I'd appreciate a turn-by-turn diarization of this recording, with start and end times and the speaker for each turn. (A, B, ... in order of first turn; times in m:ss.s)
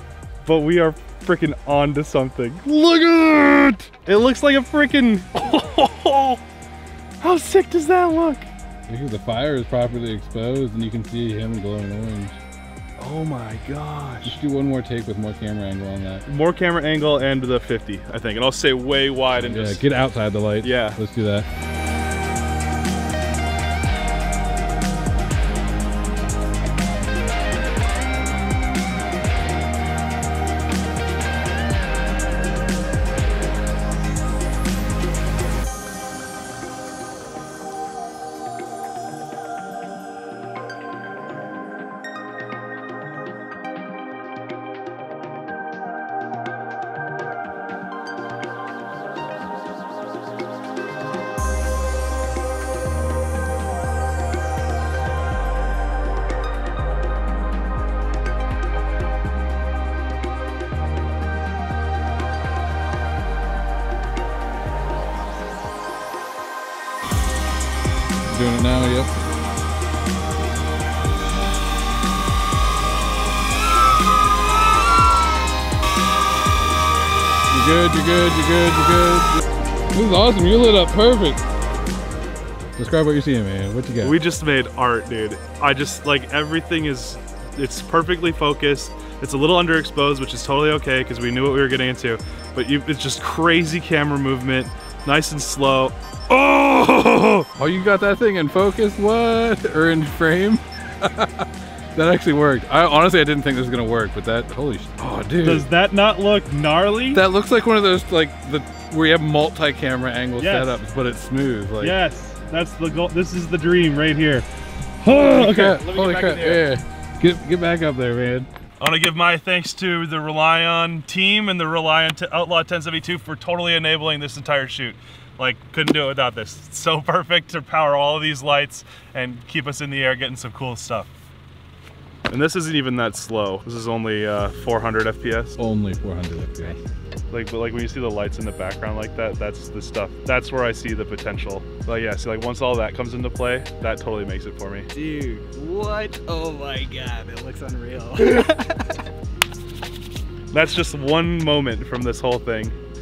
0:00.4-0:06.4 A
0:07.2-0:08.5 A
0:08.9-0:12.4 B
0:13.0-0:14.4 A
0:14.2-0:16.2 B
0:16.3-0:19.8 A
0:19.4-0:21.5 B
0:20.6-0:21.0 A
1:08.3-1:09.1 B
1:17.5-1:19.4 B
1:19.9-1:21.4 B
1:22.8-1:24.2 B
1:24.0-1:36.4 A
1:36.4-1:45.7 B
1:45.4-1:47.2 A
1:47.1-1:52.0 B
1:50.4-1:50.8 A
1:51.8-1:54.5 A
1:55.0-1:56.6 A
1:55.0-1:58.5 B
1:58.8-2:11.1 A
2:12.3-2:15.6 A
2:15.6-2:16.8 B
2:17.3-2:24.9 A
2:24.9-2:28.9 C
2:30.5-2:32.8 A